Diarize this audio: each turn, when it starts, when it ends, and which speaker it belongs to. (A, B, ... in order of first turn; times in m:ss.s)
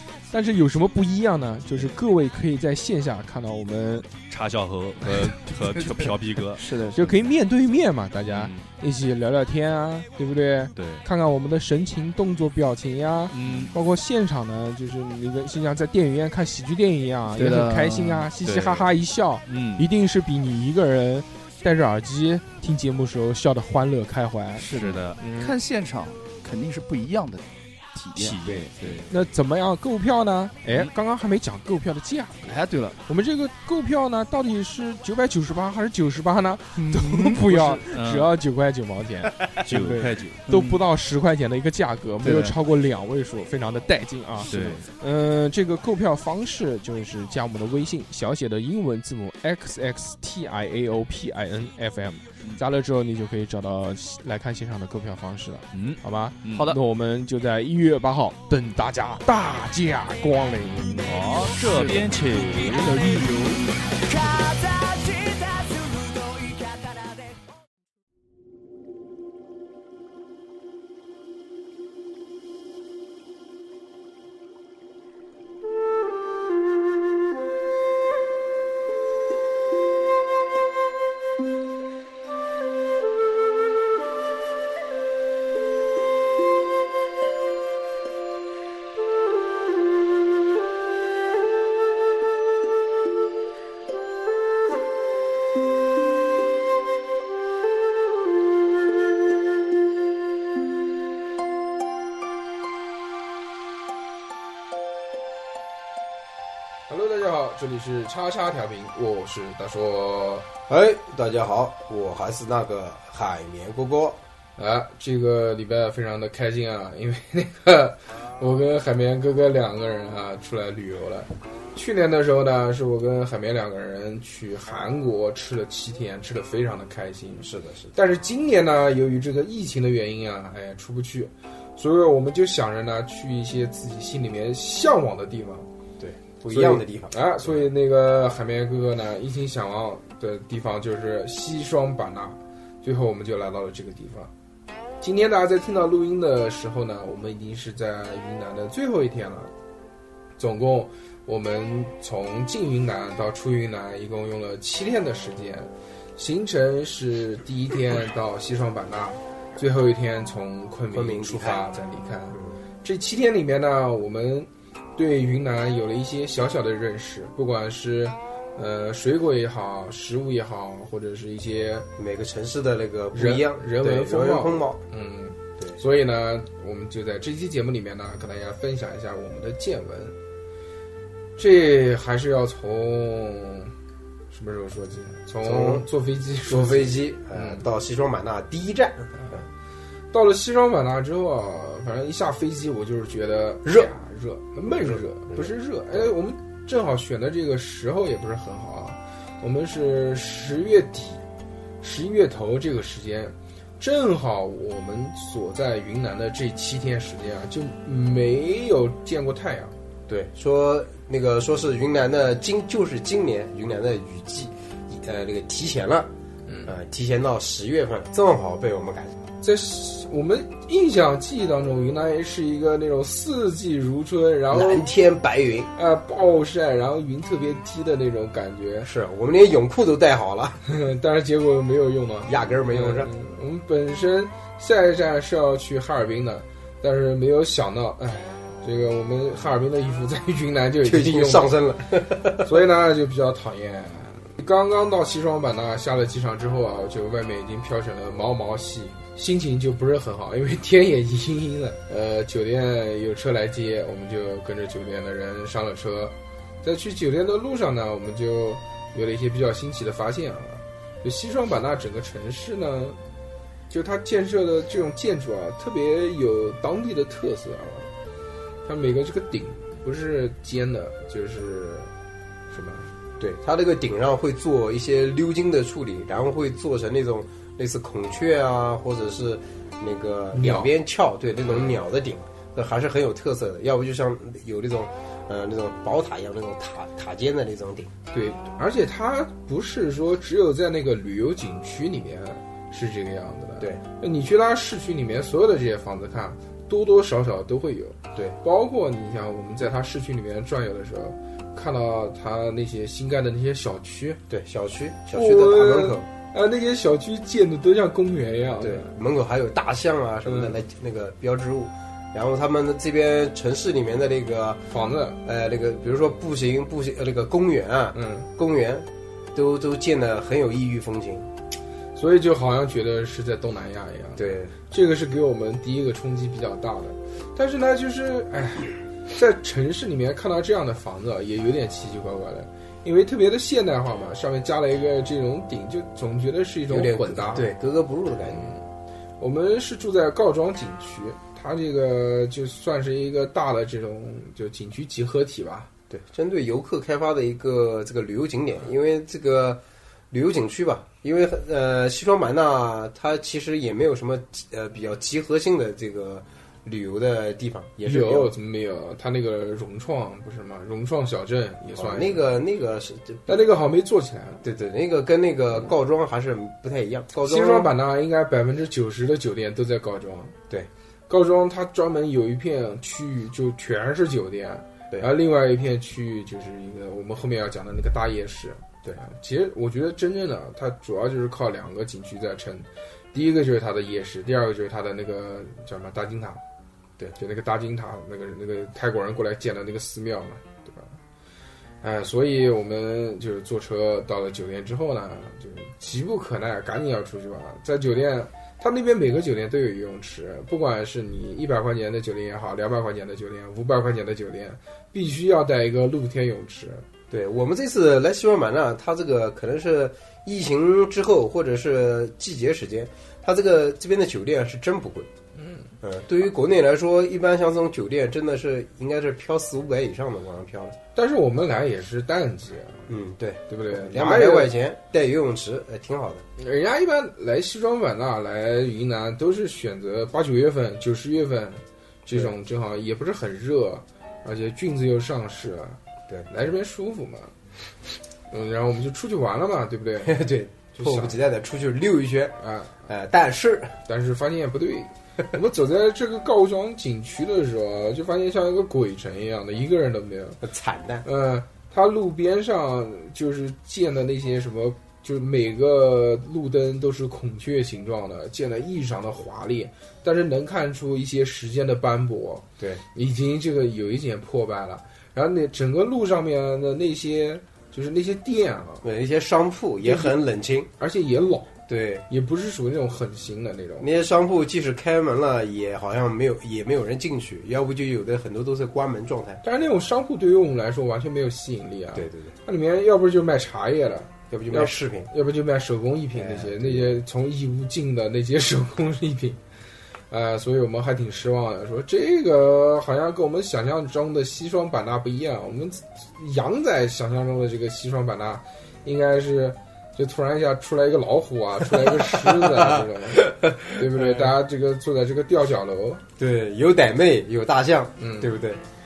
0:00.3-0:04.1 A
0:04.3-0:07.2 B
0:05.0-0:25.6 A
0:08.2-0:08.7 B
0:10.8-0:11.0 B
0:13.3-0:13.7 B
0:17.4-0:18.9 B
0:17.4-0:18.1 C
0:19.5-0:19.9 B
0:24.6-0:29.0 C
0:24.6-0:25.3 B
0:28.1-0:29.1 B
0:28.4-0:28.7 D
0:29.1-1:03.8 A
0:32.4-0:33.0 C
0:36.9-0:38.3 B
0:39.5-0:40.8 B
0:44.5-0:44.9 B
0:55.7-0:56.8 B
1:01.0-1:03.0 B
1:04.4-1:05.5 C
1:46.9-1:50.5 A
1:50.7-1:54.2 D
1:54.6-2:15.7 A
2:07.4-2:07.9 D
2:16.0-2:17.7 D
2:16.5-2:24.3 A
2:25.0-2:29.5 A
2:30.4-2:51.9 A
2:40.9-2:41.7 D
2:52.0-2:54.8 D
2:53.1-3:00.2 A
3:01.4-3:03.7 A
3:04.3-3:07.6 A
3:05.4-3:05.8 D
3:06.5-3:09.4 D
3:10.1-3:21.2 A
3:13.6-3:13.9 D
3:14.6-3:16.1 D
3:21.8-3:29.7 A
3:30.1-3:36.1 D
3:36.5-3:36.7 A
3:36.6-3:39.2 D
3:39.4-3:44.8 A
3:44.5-3:45.7 D
3:45.7-3:48.9 A
3:48.8-3:50.6 D
3:50.6-4:01.6 A
3:52.3-3:53.1 D
4:00.8-4:02.6 D
4:02.4-4:23.0 A
4:23.7-4:27.9 A
4:28.6-4:31.9 A
4:32.5-4:32.9 A
4:33.2-4:47.9 D
4:40.3-4:40.7 A
4:41.4-4:41.7 A
4:48.1-5:04.2 A
5:04.3-5:06.1 D
5:05.1-5:08.9 A
5:08.6-5:14.6 D
5:10.2-5:10.6 A
5:14.7-5:15.2 A
5:15.2-5:21.3 D
5:17.9-5:18.3 A
5:22.0-5:37.5 A
5:24.2-5:24.5 D
5:36.7-5:38.4 D
5:38.3-5:38.6 A
5:39.2-5:45.7 A
5:45.9-5:58.3 D
5:57.8-6:02.2 A
6:01.8-6:03.2 D
6:03.2-6:04.4 A
6:04.4-6:07.7 D
6:07.2-6:10.4 A
6:11.1-6:26.4 A
6:27.2-6:31.0 A
6:31.8-6:46.8 A
6:47.1-6:55.1 D
6:55.4-6:55.7 A
6:55.8-7:00.8 D
7:00.9-7:02.9 A
7:02.9-7:06.2 D
7:03.5-7:04.5 A
7:06.4-7:17.3 A
7:18.3-7:20.2 A
7:20.0-7:22.4 D
7:20.8-7:21.2 A
7:22.4-7:22.8 A
7:22.9-7:23.8 D
7:23.8-7:30.4 A
7:30.4-7:31.0 D
7:31.0-7:48.8 A
7:48.8-7:50.7 D
7:49.8-7:50.1 A
7:50.8-7:51.5 A
7:51.7-7:52.0 D
7:52.1-7:53.9 A
7:53.8-7:59.4 D
7:59.4-8:09.4 A
8:01.9-8:02.3 D
8:04.3-8:05.1 D
8:06.1-8:07.0 D
8:10.1-8:26.0 A
8:21.7-8:24.3 D
8:26.2-8:28.6 D
8:28.0-8:28.3 A